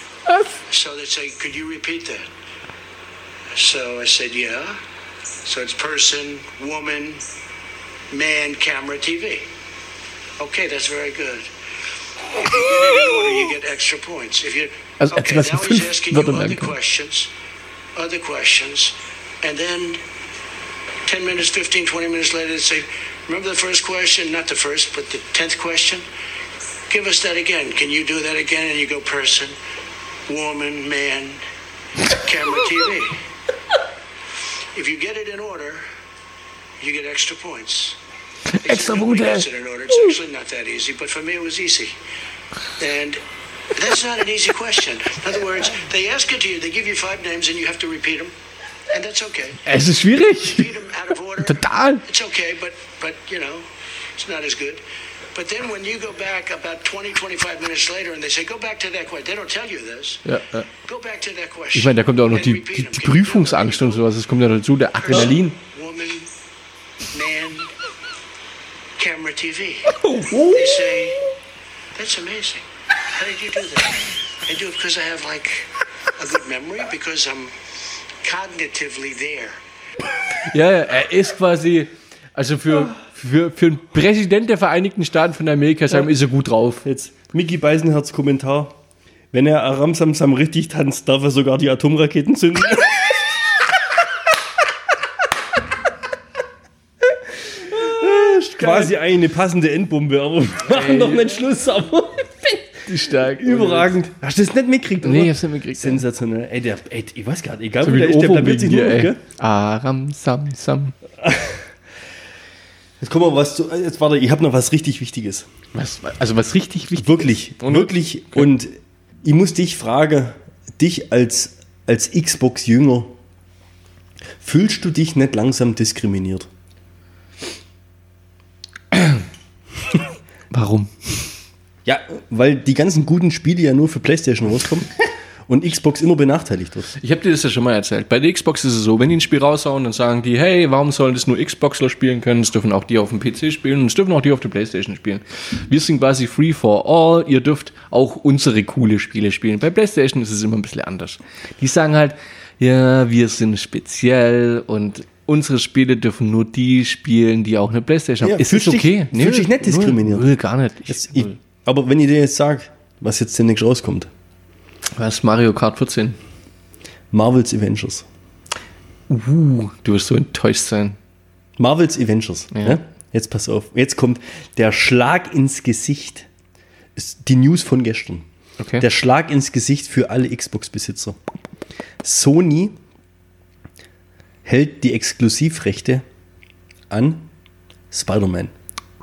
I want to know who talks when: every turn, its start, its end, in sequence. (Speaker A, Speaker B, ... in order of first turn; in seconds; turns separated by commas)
Speaker A: 0.7-2.3, Speaker A: 3.5-4.8, Speaker A: 5.4-7.2, Speaker A: 8.1-9.5, Speaker A: 10.4-11.5, Speaker A: 12.3-17.3, Speaker B: 15.0-16.7, Speaker A: 17.9-20.0, Speaker A: 21.1-26.0, Speaker A: 26.9-29.5, Speaker A: 30.3-31.4, Speaker A: 32.1-33.2, Speaker A: 34.7-35.8, Speaker A: 36.8-38.0, Speaker B: 38.5-39.4, Speaker A: 38.6-41.9, Speaker A: 42.8-43.2, Speaker A: 43.7-48.3, Speaker A: 48.9-49.6, Speaker B: 49.6-50.7, Speaker A: 50.4-54.8, Speaker B: 51.4-52.0, Speaker A: 55.3-60.2, Speaker B: 60.2-60.7, Speaker A: 60.8-64.0, Speaker B: 61.7-65.6, Speaker A: 65.0-66.3, Speaker A: 67.1-67.7, Speaker A: 69.0-71.2, Speaker B: 69.9-70.9, Speaker A: 71.9-77.5, Speaker A: 78.2-79.5, Speaker B: 80.4-86.8, Speaker C: 86.8-88.8, Speaker C: 89.3-93.4, Speaker C: 97.5-109.2, Speaker B: 98.6-98.9, Speaker B: 100.7-101.3, Speaker B: 102.9-103.9, Speaker B: 105.0-106.0, Speaker B: 107.8-110.9, Speaker C: 111.2-111.6, Speaker C: 113.0-115.5, Speaker B: 115.7-118.5, Speaker C: 117.0-123.2, Speaker C: 124.4-126.5, Speaker B: 130.5-130.9, Speaker C: 131.8-134.9, Speaker C: 135.5-136.9, Speaker B: 137.0-161.4, Speaker C: 158.2-160.3, Speaker C: 160.9-164.1, Speaker B: 164.9-166.2, Speaker C: 167.1-168.1, Speaker B: 169.1-171.0, Speaker C: 171.6-176.3, Speaker B: 172.5-172.8, Speaker C: 176.9-178.2, Speaker B: 178.6-178.8, Speaker C: 178.8-181.2, Speaker C: 182.0-182.8, Speaker C: 184.4-186.0, Speaker C: 186.9-187.2, Speaker C: 187.9-188.5